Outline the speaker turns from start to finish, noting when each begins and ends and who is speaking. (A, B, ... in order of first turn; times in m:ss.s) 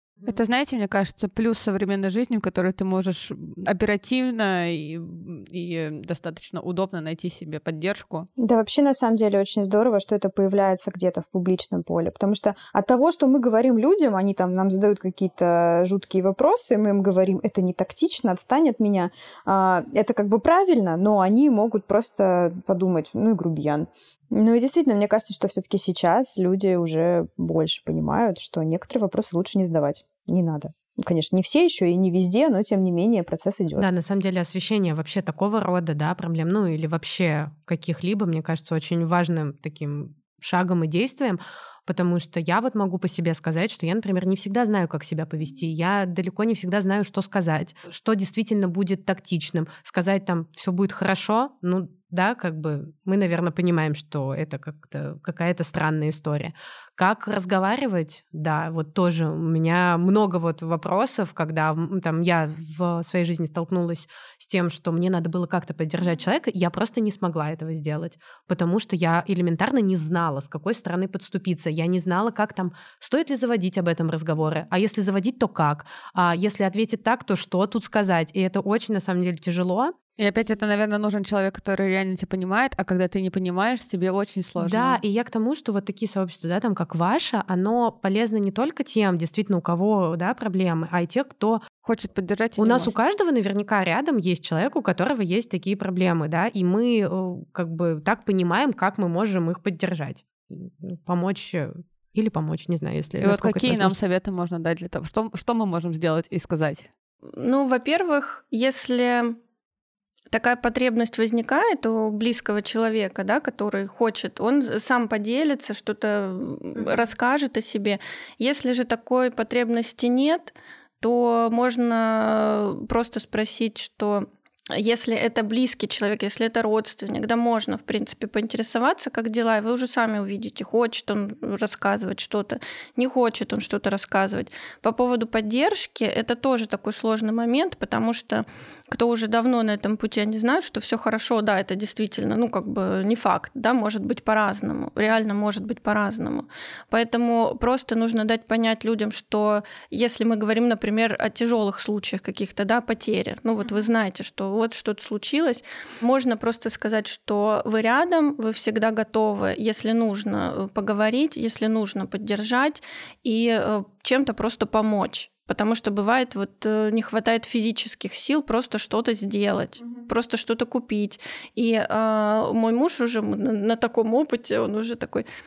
0:00.3-0:08.3 A
0:08.4-0:33.9 B
0:33.8-1:19.9 C
1:20.2-1:25.0 A
1:24.6-1:31.6 C
1:31.8-1:32.9 A
1:32.6-1:43.9 C
1:43.2-1:46.9 A
1:47.4-1:49.4 D
1:50.3-2:55.3 D
1:56.8-1:57.1 C
2:33.6-2:33.9 C